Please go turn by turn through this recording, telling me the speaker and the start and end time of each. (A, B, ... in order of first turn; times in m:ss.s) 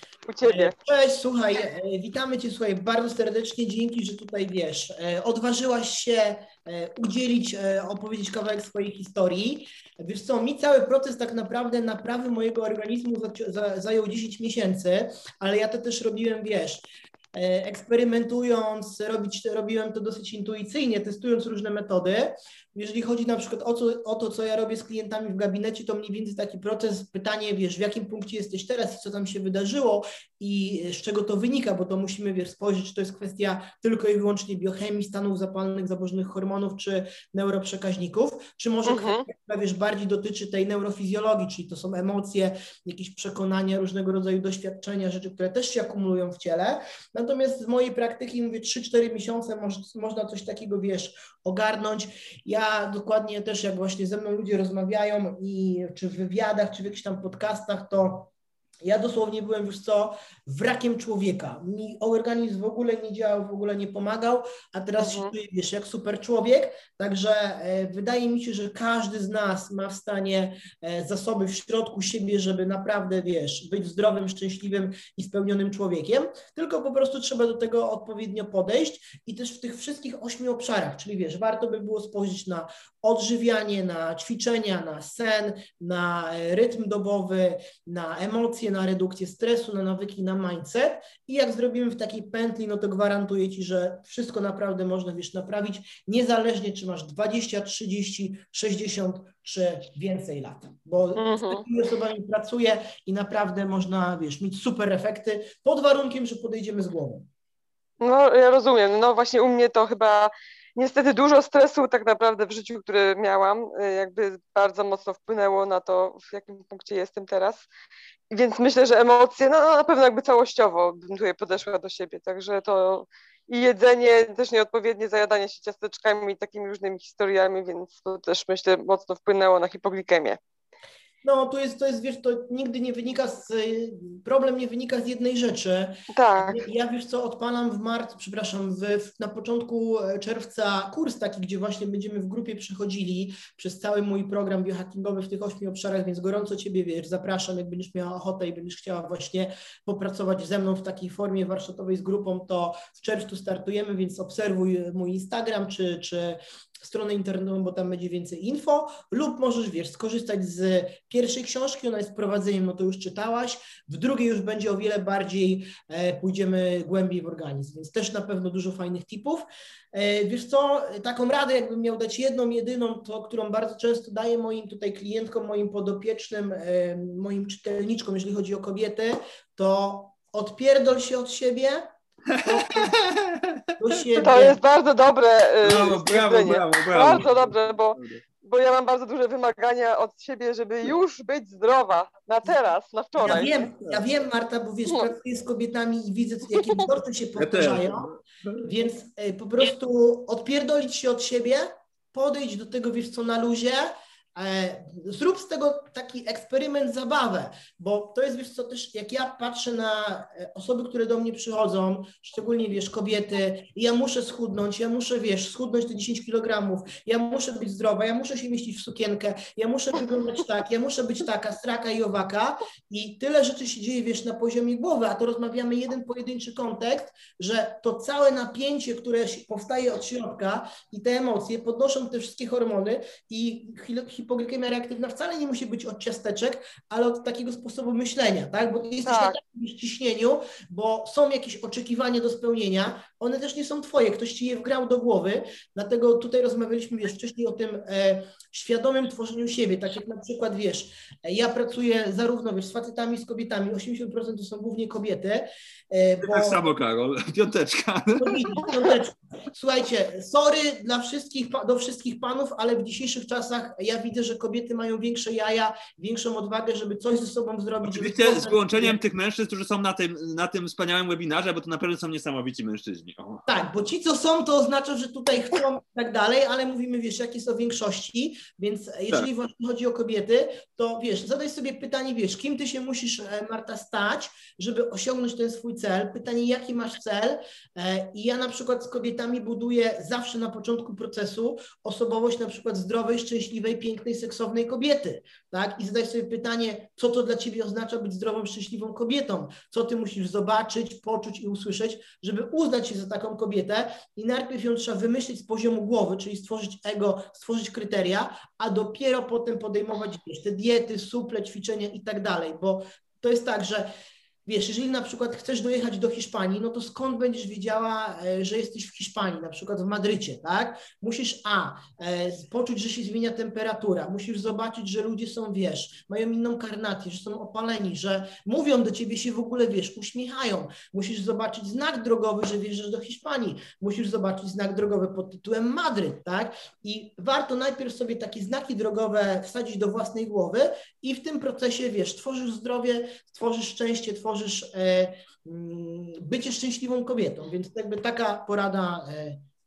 0:00.2-0:00.7 A
0:00.4-0:58.3 B
0:38.8-0:39.2 A
0:58.8-1:47.3 B
1:05.0-1:05.3 A
1:41.2-1:41.6 A
1:48.0-1:57.7 A
1:58.3-2:10.4 A
2:11.2-3:01.9 B
2:16.1-2:16.6 A
3:02.3-3:03.6 C
3:02.4-3:02.9 B
3:03.8-3:04.6 B
3:04.2-3:13.5 A
3:05.6-3:08.2 C
3:13.2-3:18.1 B
3:17.4-3:18.7 C
3:18.6-4:16.6 B
3:59.0-3:59.4 A
4:16.2-4:18.6 C
4:18.2-4:29.0 B
4:27.8-4:33.5 C
4:33.5-5:13.9 B
5:14.4-5:49.4 B